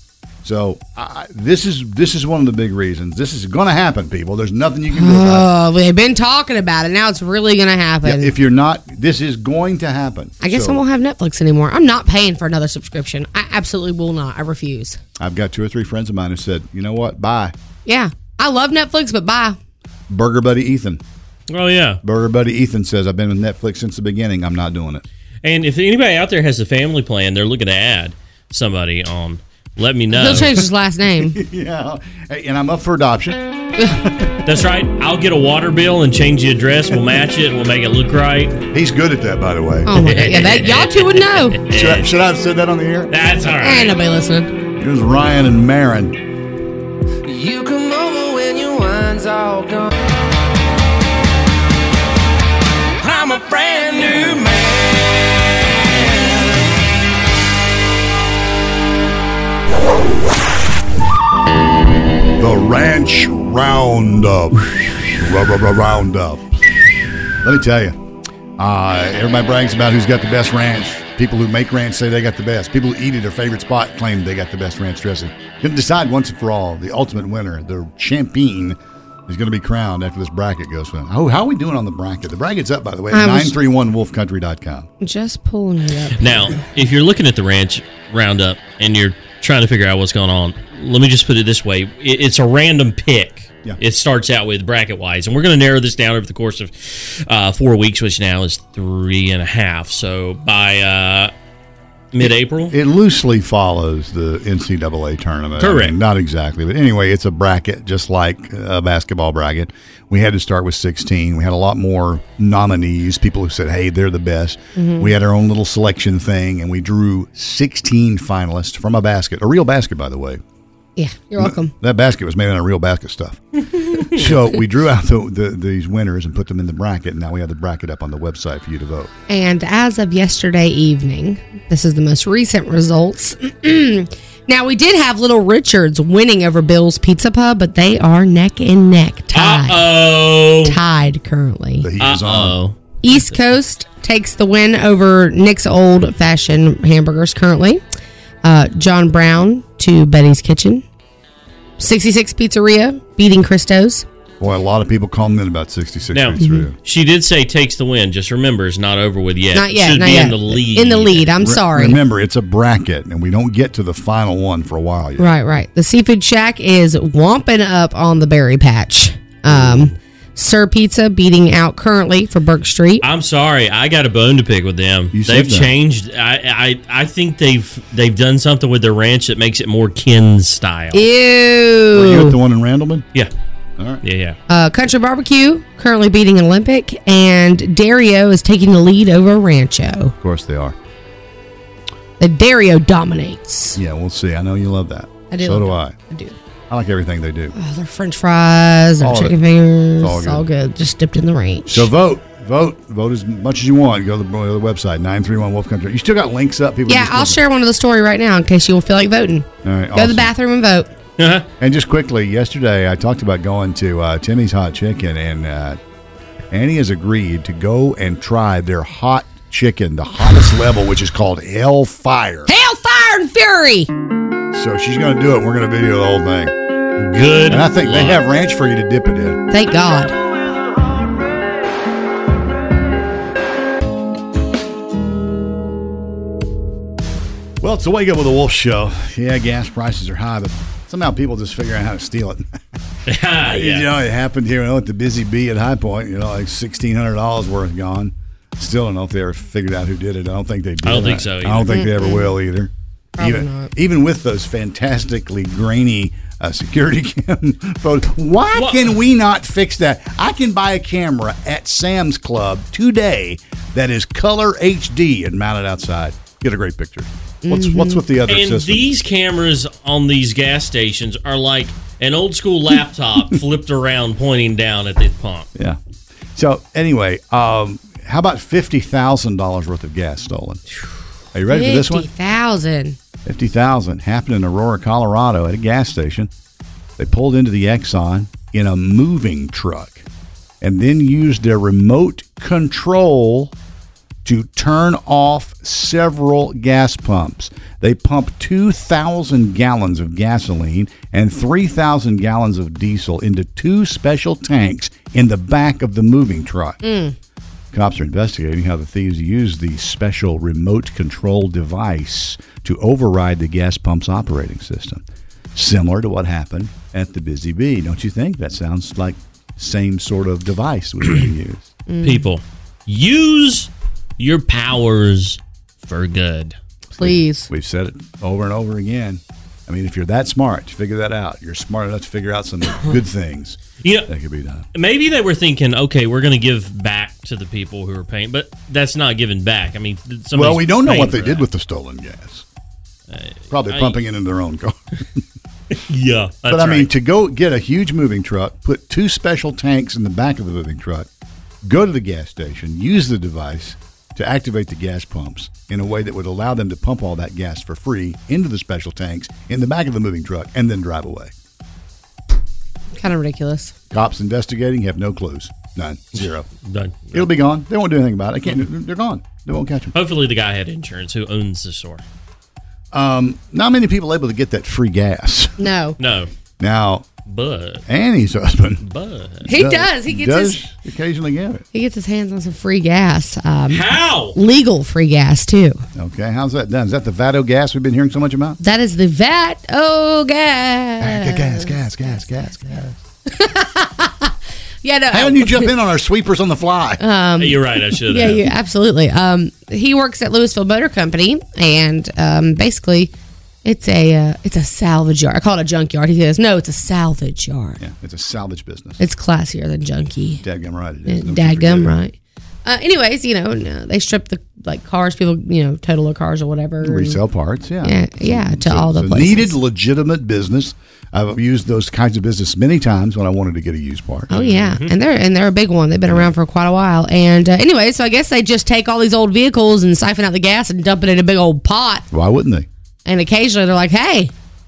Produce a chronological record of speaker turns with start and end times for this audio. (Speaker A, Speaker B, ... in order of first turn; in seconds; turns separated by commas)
Speaker A: 0.4-5.5, Speaker B: 4.9-8.3, Speaker A: 8.0-10.8, Speaker B: 10.4-15.0, Speaker A: 15.2-17.5, Speaker B: 17.9-19.6, Speaker A: 20.1-21.0, Speaker C: 21.5-22.0, Speaker A: 22.0-25.1, Speaker C: 25.4-30.5, Speaker B: 30.1-31.4, Speaker A: 30.4-34.5, Speaker C: 34.5-38.6, Speaker A: 38.7-40.0, Speaker B: 39.9-41.6, Speaker C: 40.0-42.1, Speaker A: 41.7-43.1, Speaker C: 43.1-44.0, Speaker B: 43.6-44.5, Speaker A: 44.8-46.2, Speaker D: 47.2-49.9, Speaker D: 53.0-56.3, Speaker A: 62.4-66.5, Speaker A: 67.4-68.0, Speaker A: 68.6-84.9, Speaker B: 83.1-83.6, Speaker B: 85.0-86.6, Speaker C: 86.2-101.3, Speaker C: 102.1-102.8, Speaker A: 102.2-120.4, Speaker C: 105.6-105.9, Speaker B: 114.8-115.1, Speaker B: 121.0-121.7, Speaker A: 121.4-123.4, Speaker A: 123.9-129.1, Speaker B: 129.3-139.8, Speaker C: 139.3-140.8, Speaker B: 140.7-141.9, Speaker A: 141.8-142.6, Speaker C: 142.0-143.4, Speaker B: 143.0-147.8, Speaker B: 148.4-150.8, Speaker B: 151.8-154.1, Speaker A: 154.4-156.8, Speaker C: 156.1-161.3, Speaker B: 156.4-156.7, Speaker B: 159.5-162.0, Speaker A: 161.4-165.3, Speaker B: 165.2-173.0, Speaker A: 169.5-169.9, Speaker C: 173.0-181.1, Speaker A: 175.1-175.7, Speaker B: 180.9-182.4, Speaker A: 181.9-183.1, Speaker A: 183.8-184.0, Speaker C: 184.0-184.4, Speaker B: 184.5-190.1, Speaker A: 190.2-190.8, Speaker B: 192.2-193.8, Speaker A: 193.8-195.9, Speaker B: 195.3-196.4, Speaker A: 196.7-197.5, Speaker B: 197.5-201.9, Speaker A: 199.0-200.5, Speaker A: 201.7-207.4, Speaker B: 206.9-210.9, Speaker A: 209.6-210.3, Speaker C: 211.2-211.5, Speaker A: 211.6-215.8, Speaker A: 216.5-222.5, Speaker B: 222.5-223.9, Speaker A: 224.5-226.5, Speaker C: 227.0-228.2, Speaker A: 227.5-229.4, Speaker B: 229.5-230.1, Speaker A: 237.6-242.5, Speaker C: 243.1-243.9, Speaker A: 243.4-268.9, Speaker C: 250.8-251.7, Speaker B: 251.7-252.3, Speaker B: 253.2-253.7, Speaker C: 258.6-258.9, Speaker B: 267.4-268.0, Speaker C: 268.3-275.5, Speaker A: 276.4-280.6, Speaker A: 281.3-282.1, Speaker B: 281.5-283.0, Speaker A: 283.2-286.3, Speaker A: 287.0-290.1, Speaker A: 290.6-293.5, Speaker A: 294.2-306.8, Speaker B: 306.8-307.1, Speaker A: 307.7-315.0, Speaker A: 315.6-321.7, Speaker B: 321.9-322.3, Speaker C: 322.0-326.6, Speaker B: 326.9-327.5, Speaker A: 327.0-334.7, Speaker C: 333.8-334.1, Speaker C: 334.8-341.5, Speaker A: 340.3-342.4, Speaker C: 343.1-344.0, Speaker A: 343.5-345.2, Speaker C: 345.7-346.9, Speaker A: 346.5-351.1, Speaker A: 351.6-361.3, Speaker B: 362.9-363.7, Speaker A: 363.9-366.5, Speaker C: 366.6-367.3, Speaker A: 367.1-369.9, Speaker C: 369.9-372.0, Speaker A: 372.9-375.7, Speaker B: 375.6-376.0, Speaker C: 376.0-376.3, Speaker A: 376.6-377.1, Speaker C: 377.3-377.8, Speaker A: 377.9-378.8, Speaker C: 378.8-379.5, Speaker A: 379.4-381.6, Speaker B: 379.5-380.6, Speaker B: 381.7-385.8, Speaker C: 383.7-384.4, Speaker A: 385.9-388.6, Speaker B: 388.6-391.8, Speaker A: 391.0-393.0, Speaker B: 393.3-394.3, Speaker B: 394.8-395.7, Speaker A: 395.1-397.0, Speaker B: 397.0-403.1, Speaker C: 397.4-398.4, Speaker B: 403.6-407.8, Speaker A: 407.8-409.0, Speaker B: 409.0-410.4, Speaker A: 410.4-412.0, Speaker B: 411.1-417.2, Speaker A: 416.8-424.4, Speaker B: 417.8-419.6, Speaker B: 424.3-432.1, Speaker C: 424.3-424.9, Speaker A: 432.1-432.7, Speaker B: 433.1-434.3